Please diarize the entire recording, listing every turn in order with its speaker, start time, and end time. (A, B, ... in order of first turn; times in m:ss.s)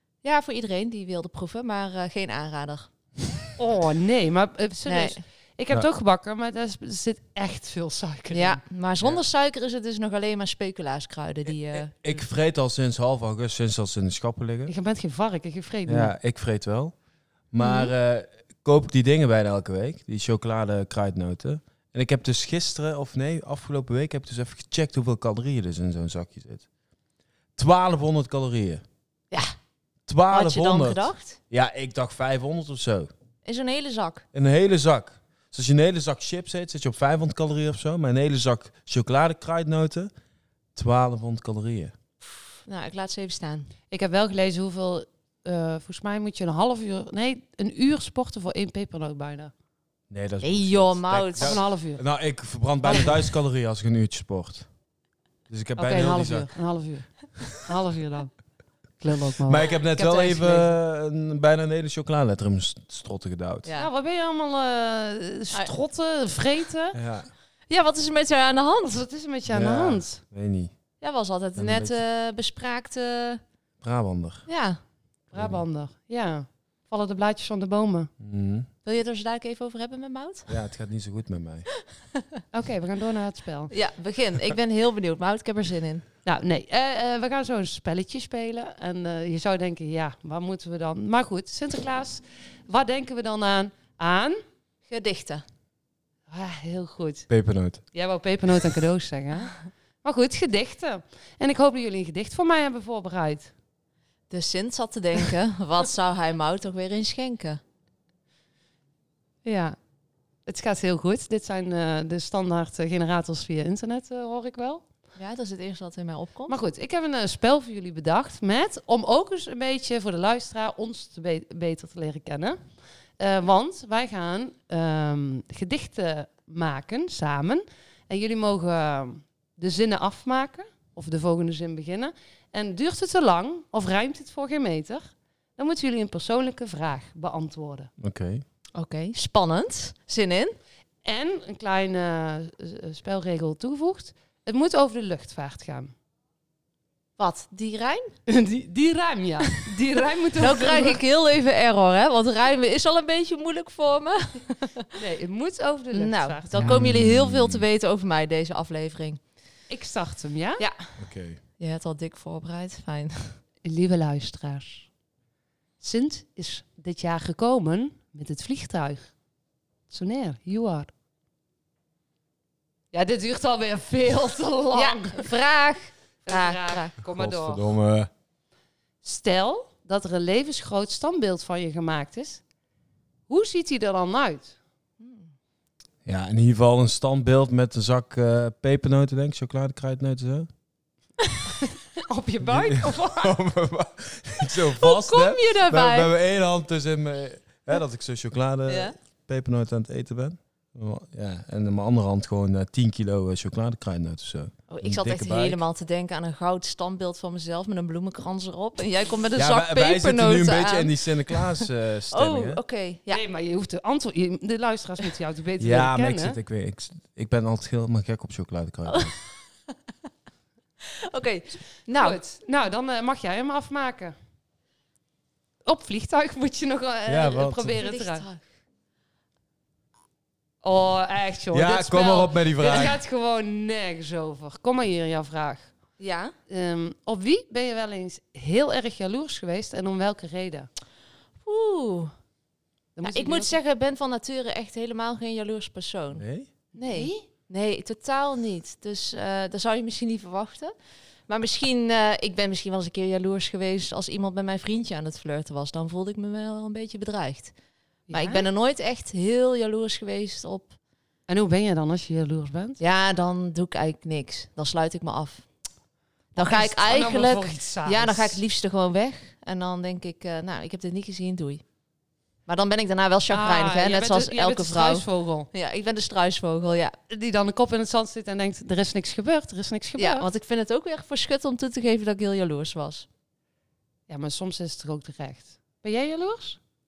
0:00.2-0:02.9 A
0:03.6-0:08.6 B
0:04.9-0:05.2 A
0:08.3-0:12.0 A
0:12.0-0:14.7 C
0:14.7-0:16.1 B
0:15.8-0:16.9 C
0:17.5-0:26.6 C
0:17.6-0:17.9 A
0:27.6-0:28.8 C
0:30.1-0:33.1 C
0:30.3-0:31.4 A
0:33.4-0:34.2 A
0:34.3-0:40.1 C
0:40.8-0:41.9 C
0:42.6-0:43.7 A
0:43.9-0:49.5 B
0:50.1-0:54.7 C
0:50.4-0:51.6 A
0:51.4-0:52.0 B
0:52.8-0:53.1 B
0:55.5-0:56.5 C
0:55.8-0:58.3 B
0:59.0-0:59.6 B
0:59.4-1:03.7 C
0:59.9-1:00.7 A
1:03.6-1:03.9 A
1:03.8-1:07.0 B
1:06.9-1:07.3 C
1:07.7-1:09.0 A
1:08.9-1:10.2 B
1:09.5-1:10.7 C
1:11.0-1:13.4 A
1:11.6-1:12.0 C
1:13.8-1:14.5 C
1:14.5-1:14.8 A
1:15.3-1:18.1 B
1:15.3-1:15.6 C
1:18.2-1:18.7 C
1:18.8-1:20.5 A
1:20.5-1:21.7 C
1:22.5-1:23.7 B
1:23.7-1:26.0 A
1:26.2-1:34.4 B
1:34.9-1:35.4 A
1:36.3-1:37.3 B
1:37.3-1:37.8 C
1:37.9-1:43.5 B
1:44.3-1:47.6 A
1:49.4-1:49.8 B
1:50.4-1:54.8 B
1:55.2-1:56.6 A
1:56.5-2:02.6 B
2:03.2-2:17.9 B
2:18.0-2:18.4 C
2:18.7-2:20.6 A
2:21.0-2:25.9 B
2:27.2-2:28.1 A
2:28.3-2:31.0 B
2:30.4-2:34.9 A
2:34.9-2:36.5 B
2:35.9-2:39.2 A
2:36.5-2:37.6 C
2:39.7-2:40.6 B
2:41.0-2:41.4 C
2:41.6-2:43.4 A
2:43.6-2:44.9 B
2:45.8-2:49.1 B
2:49.9-2:50.9 B
2:52.9-2:55.3 B
2:54.7-2:56.9 A
2:56.2-2:57.7 B
2:57.0-2:58.1 C
2:59.0-3:02.4 B
3:03.3-3:04.6 B
3:05.0-3:05.3 A
3:06.0-3:10.5 C
3:12.0-3:13.4 B
3:12.4-3:25.6 C
3:14.8-3:16.1 A
3:18.7-3:18.9 A
3:24.7-3:33.2 A
3:29.3-3:32.6 C
3:33.1-3:36.4 B
3:35.6-3:39.1 C
3:38.9-3:39.1 A
3:41.0-3:42.2 A
3:41.9-3:44.1 B
3:45.6-3:48.2 B
3:47.1-3:47.8 C
3:47.8-3:48.4 A
3:50.6-3:55.7 B
3:51.5-3:53.0 C
3:56.0-3:56.3 A
3:56.5-4:00.7 B
4:01.4-4:02.1 A
4:03.0-4:03.5 B
4:03.0-4:06.2 A
4:06.2-4:06.5 C
4:06.8-4:07.2 B
4:06.8-4:10.7 A
4:11.3-4:17.5 A
4:18.1-4:18.4 B
4:18.1-4:20.7 A
4:21.3-4:22.8 B
4:22.8-4:25.5 A
4:26.4-4:28.4 B
4:26.4-4:31.6 A
4:32.5-4:37.0 A
4:33.3-4:35.5 B
4:37.1-4:40.3 B
4:40.0-4:43.0 A
4:44.1-4:46.6 B